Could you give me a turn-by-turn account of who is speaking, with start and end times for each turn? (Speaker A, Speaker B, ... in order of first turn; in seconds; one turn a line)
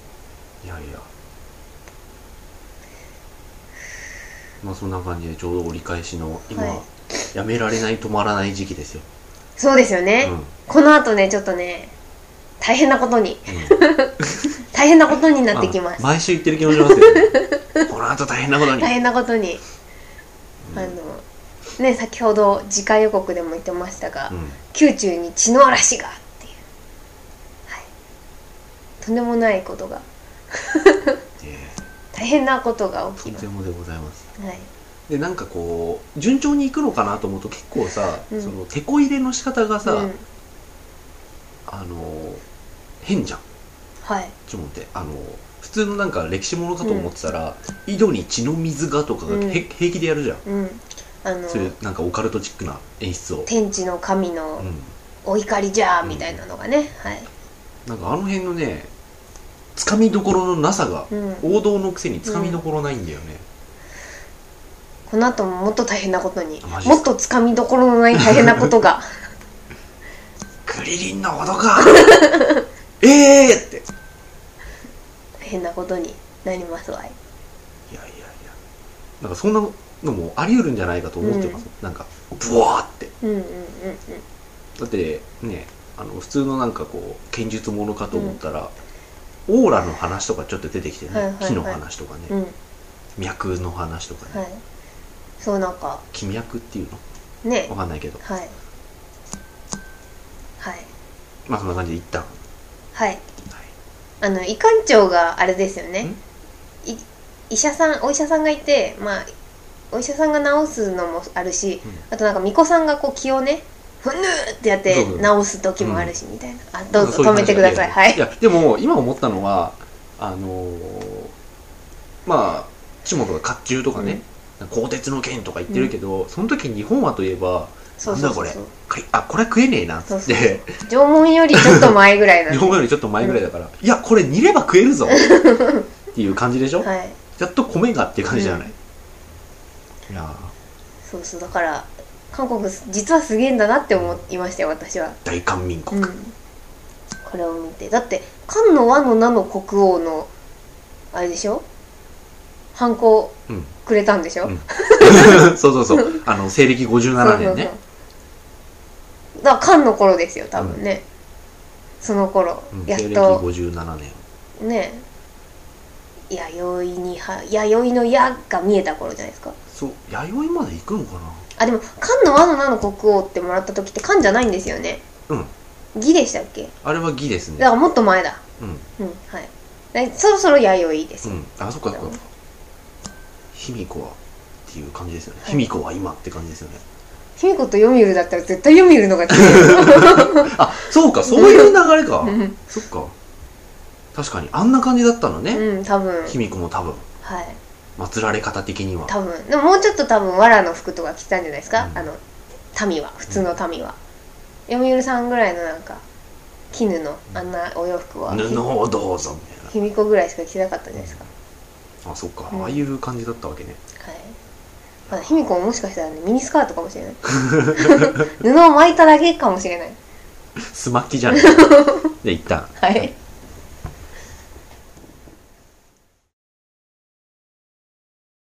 Speaker A: 0.6-1.1
Speaker A: 4.6-9.1
Speaker B: 6.5-6.8
Speaker B: 9.6-11.9
Speaker A: 10.2-10.5
Speaker B: 12.6-14.2
Speaker A: 13.5-14.3
Speaker B: 14.7-16.1
Speaker A: 15.5-18.9
Speaker B: 16.7-17.8
Speaker B: 18.8-19.6
Speaker A: 20.6-21.0
Speaker B: 20.7-21.2
Speaker B: 21.8-26.6
Speaker A: 24.3-24.6
Speaker B: 29.0-31.2
Speaker A: 31.4-31.8
Speaker B: 32.1-33.5
Speaker A: 33.2-34.3
Speaker B: 34.4-34.7
Speaker A: 35.1-40.1
Speaker B: 39.9-40.2
Speaker A: 41.7-42.4
Speaker A: 43.0-43.4
Speaker B: 44.0-44.4
Speaker A: 44.5-50.4
Speaker B: 46.8-47.1
Speaker B: 49.3-49.6
Speaker B: 50.5-51.8
Speaker A: 51.5-53.5
Speaker B: 53.5-54.7
Speaker A: 54.6-54.9
Speaker B: 55.2-57.3
Speaker A: 56.0-56.4
Speaker A: 57.9-58.9
Speaker A: 59.8-63.5
Speaker B: 61.1-61.4
Speaker B: 62.3-62.6
Speaker B: 65.1-69.2
Speaker A: 66.6-67.1
Speaker A: 68.1-68.7
Speaker A: 70.7-72.3
Speaker B: 71.9-72.6
Speaker A: 73.0-73.9
Speaker B: 75.4-77.2
Speaker A: 77.9-78.5
Speaker A: 79.2-83.1
Speaker B: 81.2-81.6
Speaker B: 83.2-84.2
Speaker A: 84.8-88.7
Speaker B: 88.1-88.4
Speaker A: 89.5-92.3
Speaker B: 91.1-92.5
Speaker A: 93.2-94.4
Speaker B: 94.3-94.6
Speaker B: 95.4-96.0
Speaker A: 96.1-97.0
Speaker B: 97.4-98.5
Speaker A: 97.7-98.2
Speaker B: 100.6-100.9
Speaker A: 101.5-102.4
Speaker B: 103.0-103.2
Speaker B: 104.2-106.1
Speaker B: 106.8-109.3
Speaker B: 109.9-118.2
Speaker A: 114.9-116.1
Speaker A: 116.9-121.3
Speaker A: 122.2-130.8
Speaker B: 124.0-124.2
Speaker B: 128.0-128.7
Speaker B: 130.1-133.4
Speaker A: 131.5-132.0
Speaker A: 132.5-135.3
Speaker B: 135.1-135.9
Speaker A: 136.1-138.8
Speaker B: 136.8-137.2
Speaker B: 138.3-138.7
Speaker A: 140.1-140.5
Speaker B: 141.1-145.2
Speaker A: 145.2-146.1
Speaker B: 145.9-146.3
Speaker B: 147.2-150.3
Speaker B: 151.1-151.7
Speaker B: 152.8-156.2
Speaker A: 153.5-153.7
Speaker A: 154.5-157.7
Speaker B: 157.2-157.8
Speaker B: 159.4-161.0
Speaker B: 162.0-163.4
Speaker A: 162.7-164.2
Speaker B: 164.6-165.1
Speaker B: 166.3-169.6
Speaker A: 169.7-171.5
Speaker B: 171.6-175.0
Speaker B: 175.9-176.7
Speaker A: 176.8-177.7
Speaker B: 177.6-178.4
Speaker A: 178.6-178.9
Speaker B: 179.0-181.4
Speaker A: 181.2-182.3
Speaker A: 183.5-186.8
Speaker B: 187.4-190.5
Speaker A: 189.3-193.2
Speaker B: 191.3-192.6
Speaker A: 194.1-195.7
Speaker B: 195.5-196.4
Speaker A: 196.3-197.1
Speaker B: 197.2-197.6
Speaker A: 198.0-199.1
Speaker B: 199.1-202.2
Speaker A: 201.8-202.1
Speaker B: 202.7-204.0
Speaker B: 204.7-206.0
Speaker B: 206.7-208.6
Speaker A: 208.3-209.7
Speaker B: 209.7-211.3
Speaker A: 211.0-211.3
Speaker A: 212.0-213.8
Speaker B: 212.5-212.8
Speaker B: 214.0-214.4
Speaker A: 215.1-215.3
Speaker B: 215.1-220.0
Speaker A: 217.3-218.2
Speaker A: 220.6-223.1
Speaker B: 221.3-222.2
Speaker B: 222.8-223.1